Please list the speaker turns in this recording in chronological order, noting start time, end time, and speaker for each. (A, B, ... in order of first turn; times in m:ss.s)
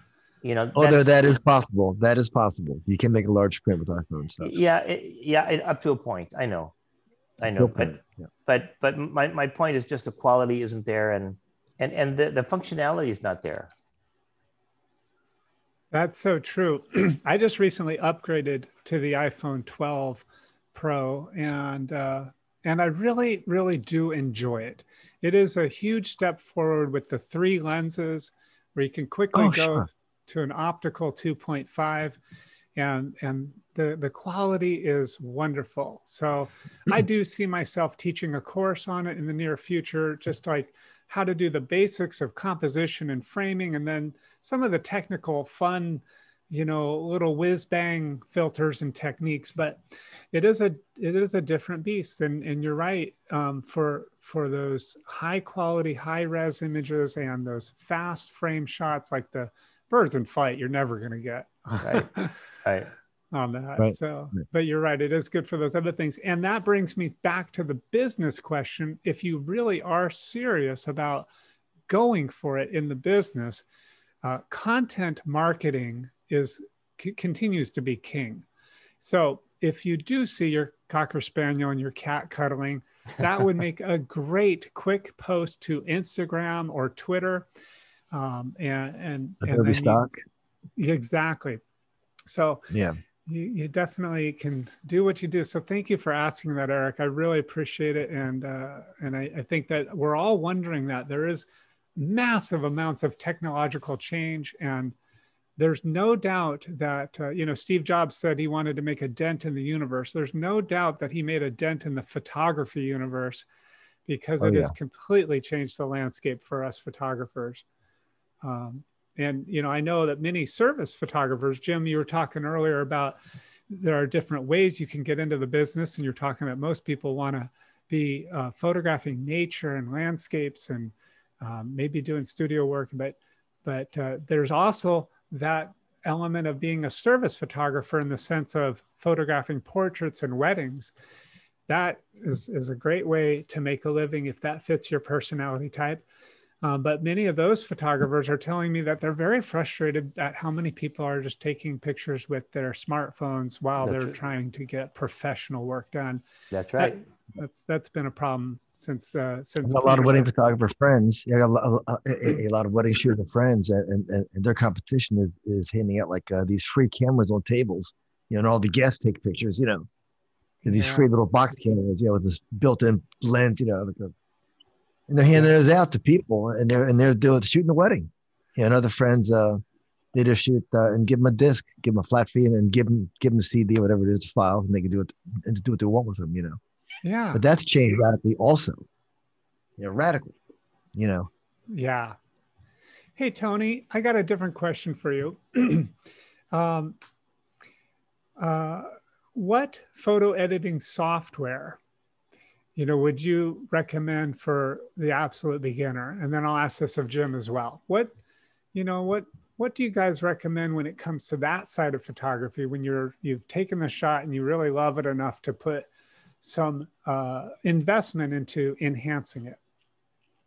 0:00.4-0:01.1 A
0:00.8-0:04.6 B
0:04.4-0:06.7 A
0:07.4-0:08.0 A
0:07.6-0:08.3 B
0:08.5-0:13.7 A
0:15.9-0:32.2 C
0:29.3-0:29.9 B
0:32.8-0:49.8 C
0:50.3-1:02.3 C
1:01.8-1:02.1 A
1:02.6-1:02.9 A
1:03.3-1:11.3 C
1:11.9-1:13.6 C
1:14.2-1:18.4 C
1:19.0-1:27.5 C
1:28.1-1:30.2 C
1:29.4-1:30.1 B
1:30.8-1:31.6 C
1:32.3-1:32.7 C
1:32.7-1:33.0 B
1:33.3-1:45.0 C
1:45.6-1:53.5 C
1:54.1-1:57.6 C
1:54.4-1:54.7 B
1:58.4-2:03.2 C
2:03.7-2:20.9 C
2:21.7-2:26.0 C
2:26.6-2:36.2 C
2:36.5-2:37.0 A
2:36.8-2:40.3 C
2:39.6-2:49.9 B
2:50.6-2:51.1 C
2:50.6-2:54.1 B
2:55.1-2:59.6 B
3:00.1-3:06.6 B
3:07.0-3:07.4 C
3:07.3-3:08.8 B
3:09.8-3:10.4 B
3:11.0-3:11.3 B
3:11.7-3:12.2 C
3:13.2-3:15.9 C
3:16.5-3:17.0 C
3:18.4-3:21.8 C
3:22.8-3:28.2 C
3:28.7-3:35.9 C
3:36.4-3:39.6 C